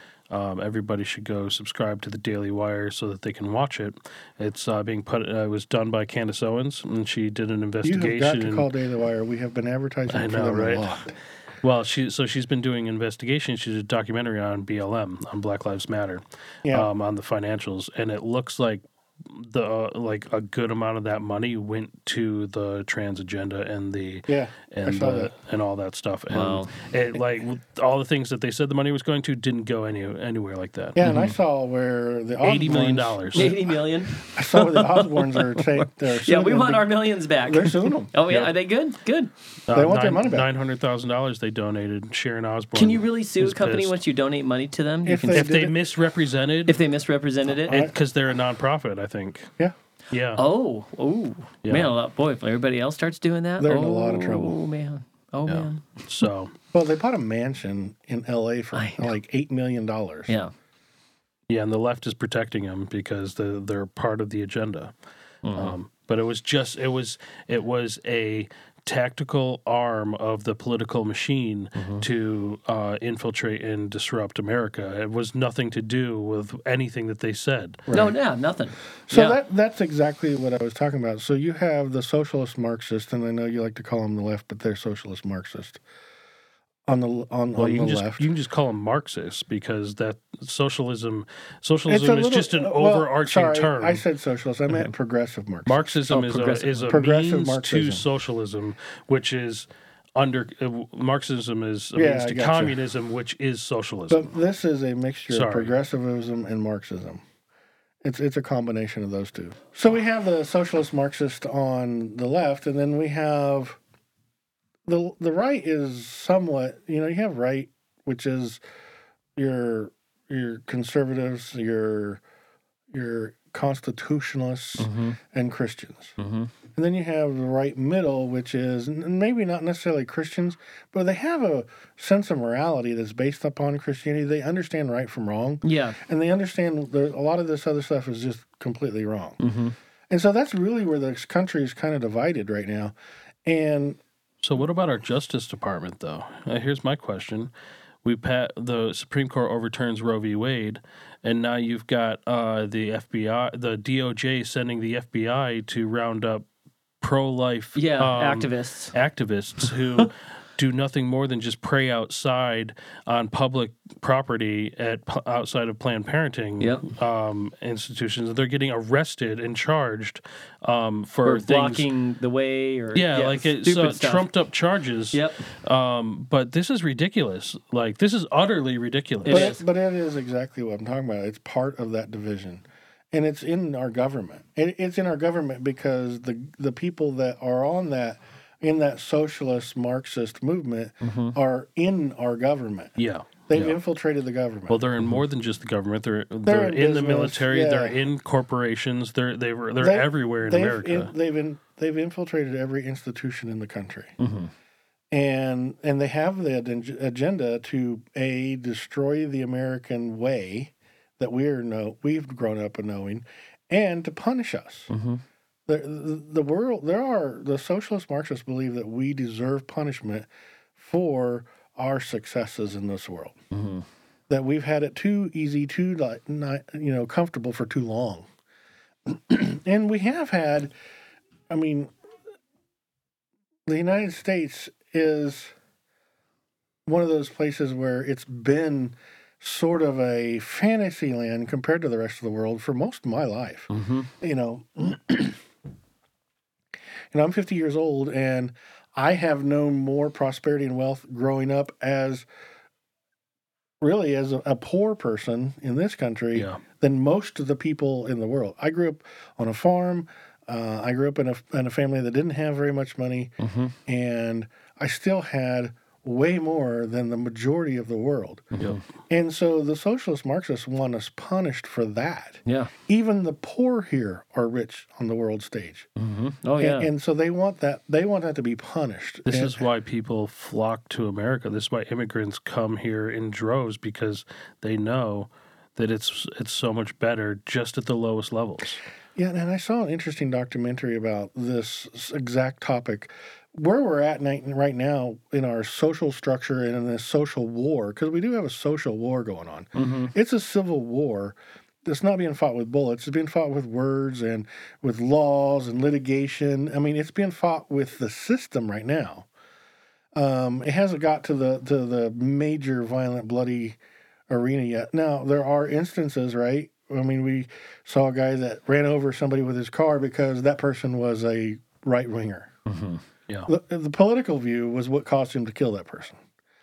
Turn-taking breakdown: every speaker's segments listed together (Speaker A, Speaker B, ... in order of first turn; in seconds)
Speaker A: 0.3-8.7, 10.1-11.0, 11.6-31.0, 32.4-33.6, 39.7-44.0, 45.3-46.8, 47.7-49.5, 50.1-50.4, 51.6-51.9, 55.5-56.5, 61.5-64.9, 65.5-77.9, 87.6-94.0, 95.7-104.3, 105.3-105.7, 144.4-147.5, 148.0-156.5, 157.0-171.9, 172.9-179.5, 193.0-193.8, 194.7-201.1, 256.4-256.6, 279.3-288.8
Speaker B: 7.8-11.2, 24.3-25.3, 31.0-38.1, 39.7-40.5, 45.0-45.8, 47.7-47.9, 53.6-54.6, 56.7-60.4, 77.9-78.2, 79.1-85.8, 86.9-88.3, 91.9-96.0, 96.9-98.1, 102.0-102.8, 104.1-107.2, 108.0-113.8, 114.9-118.6, 119.4-122.2, 122.9-126.2, 126.8-139.4, 140.1-142.9, 143.5-144.0, 179.3-194.8, 196.5-198.0, 199.8-204.2, 205.1-214.9, 215.7-223.4, 224.3-228.3, 229.1-230.7, 231.5-231.9, 233.7-235.5, 236.9-245.4, 247.1-252.3, 253.8-263.4, 263.9-268.5, 269.1-275.9, 276.6-279.6, 289.2-309.3, 310.1-313.8, 314.3-322.5, 323.5-326.2
Speaker C: 26.3-26.7, 31.1-31.3, 33.3-39.3, 42.8-45.5, 46.7-47.8, 50.4-56.1, 58.7-59.1, 65.5-65.8, 71.8-72.0, 77.9-79.4, 96.1-96.9, 124.8-125.2, 126.2-126.5, 135.6-136.0, 139.4-139.8, 157.8-158.9, 166.6-166.9, 171.2-174.3, 175.1-175.5, 179.3-179.6, 191.0-191.4, 204.2-204.5, 214.9-215.2, 223.5-223.8, 243.7-244.1, 263.4-263.8, 268.6-268.8, 272.5-272.7, 276.0-276.9, 299.8-300.1, 322.7-323.0